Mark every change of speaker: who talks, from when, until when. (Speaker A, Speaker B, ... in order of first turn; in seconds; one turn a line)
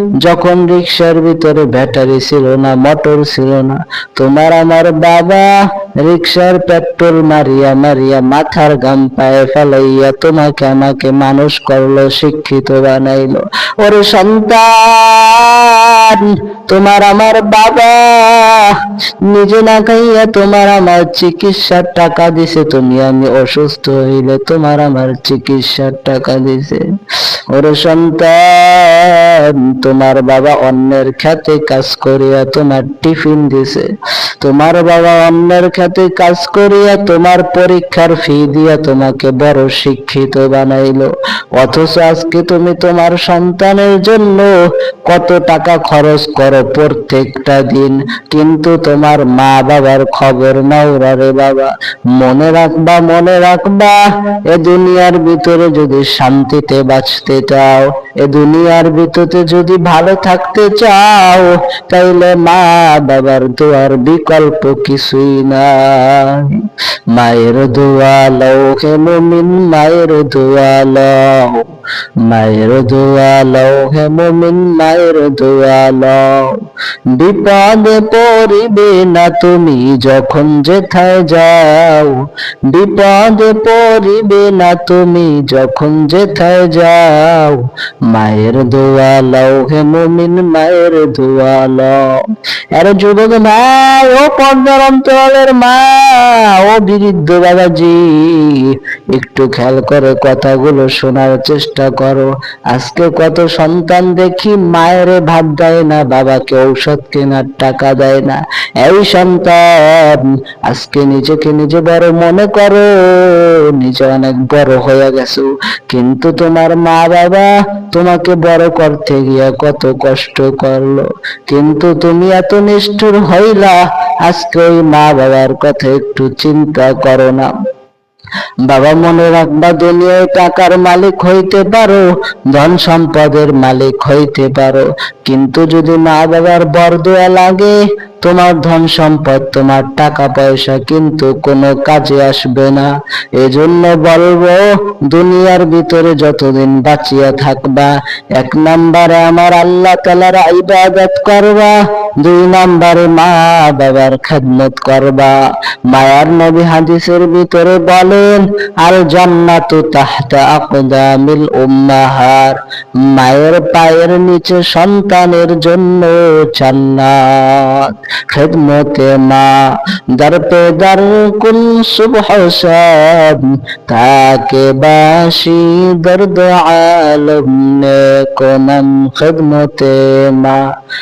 Speaker A: 0.2-26.8
Speaker A: 27.5-33.9
Speaker A: 34.4-44.5
Speaker A: 45.1-71.7
Speaker A: 72.2-92.2
Speaker A: 92.7-127.5
Speaker A: 128.7-155.3
Speaker A: 155.9-180.6